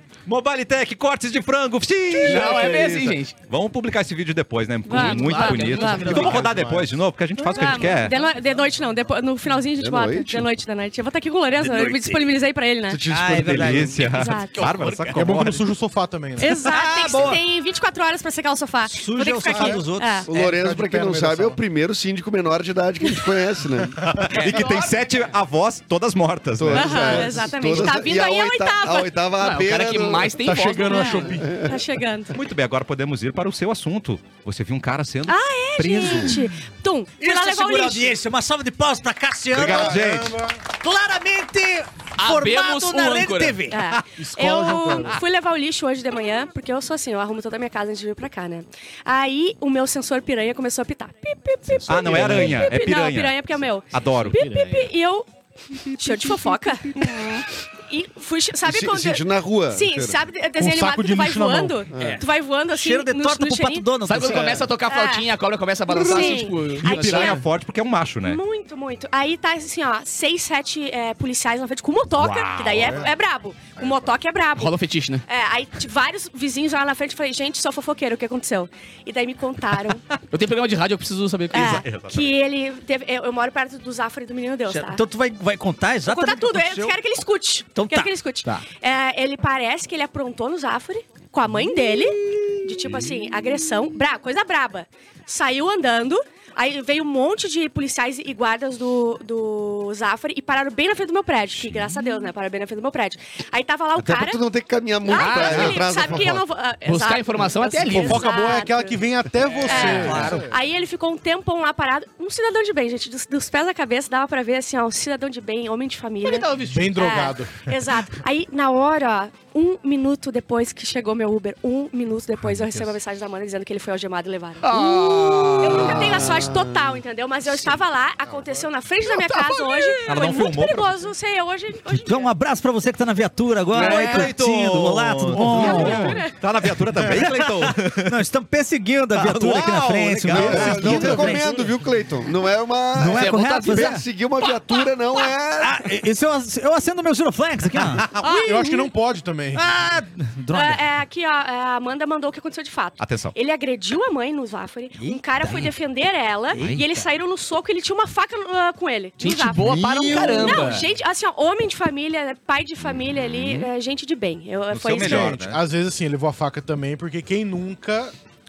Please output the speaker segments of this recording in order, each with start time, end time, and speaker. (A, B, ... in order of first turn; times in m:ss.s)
0:00.2-0:02.8 A
0:02.1-0:02.5 B
0:02.2-0:03.4 C
0:02.2-0:03.2 D
0:03.4-0:08.2 A
0:04.8-0:06.4 B
0:04.9-0:06.5 C
0:05.9-0:06.5 E
0:06.1-0:06.8 D
0:07.5-0:13.0 B
0:09.8-0:10.5 D
0:11.7-0:12.0 A
0:12.9-0:14.0 D
0:13.1-0:15.2 E
0:13.3-0:15.7 A
0:14.0-0:14.6 B
0:14.6-0:15.1 C
0:15.1-0:16.6 F
0:16.4-0:20.3 B
0:16.6-0:17.4 E
0:18.8-0:20.3 E
0:19.4-0:21.6 F
0:20.2-0:24.0 D
0:24.0-0:27.3 A
0:24.3-0:24.7 C
0:24.4-0:24.8 B
0:26.6-0:30.4 D
0:26.8-0:29.1 B
0:29.4-0:31.4 C
0:30.4-0:31.6 F
0:30.9-0:32.4 B
0:31.4-0:31.8 D
0:32.3-0:36.4 A
0:35.2-0:38.2 B
0:37.2-0:40.0 E
0:39.5-0:40.4 A
0:39.5-0:40.6 F
0:40.7-0:44.0 E
0:42.2-0:43.6 C
0:43.7-0:55.3 B
0:44.1-0:45.2 F
0:44.9-0:45.2 C
0:51.6-0:52.7 C
0:51.9-0:54.4 A
0:54.3-0:54.9 C
0:55.9-1:03.9 B
0:57.1-0:57.4 C
0:58.6-1:00.2 D
1:00.5-1:01.9 F
1:01.9-1:02.2 D
1:02.7-1:04.6 E
1:04.0-1:07.4 C
1:04.3-1:04.7 D
1:04.9-1:05.2 B
1:05.9-1:07.4 B
1:06.8-1:07.4 F
1:06.8-1:08.4 A
1:08.2-1:14.8 B
1:12.2-1:13.1 A
1:12.8-1:13.1 F
1:14.6-1:15.2 C
1:15.3-1:20.0 B
1:20.3-1:21.8 C
1:21.5-1:22.3 A
1:21.5-1:25.0 B
1:24.7-1:27.0 E
1:26.0-1:44.4 B
1:27.8-1:28.1 E
1:31.5-1:33.0 E
1:43.9-1:46.4 D
1:45.0-1:49.0 B
1:45.1-1:46.0 C
1:46.8-1:48.3 C
1:47.9-1:50.5 F
1:49.6-2:12.3 B
1:49.7-1:50.5 E
1:49.9-1:50.3 C
1:56.2-1:57.1 C
1:56.6-1:57.7 F
2:02.5-2:02.9 F
2:04.6-2:06.4 C
2:05.5-2:07.0 D
2:09.0-2:10.4 C
2:10.0-2:10.9 A
2:11.9-2:16.2 E
2:13.7-2:18.2 A
2:13.8-2:14.2 C
2:15.5-2:16.3 B
2:15.8-2:16.1 F
2:16.9-2:21.5 E
2:19.1-2:21.2 A
2:20.3-2:25.8 D
2:20.3-2:21.7 F
2:22.9-2:24.0 E
2:23.1-2:23.9 C
2:24.4-2:24.9 B
2:25.6-2:28.0 E
2:27.9-2:28.4 A
2:28.2-2:28.9 B
2:28.3-2:29.6 F
2:29.5-2:30.8 E
2:30.5-2:45.4 B
2:33.0-2:33.3 A
2:35.0-2:35.7 E
2:36.5-2:36.8 A
2:39.2-2:40.9 C
2:39.6-2:40.7 F
2:44.7-2:45.6 A
2:44.9-2:48.1 F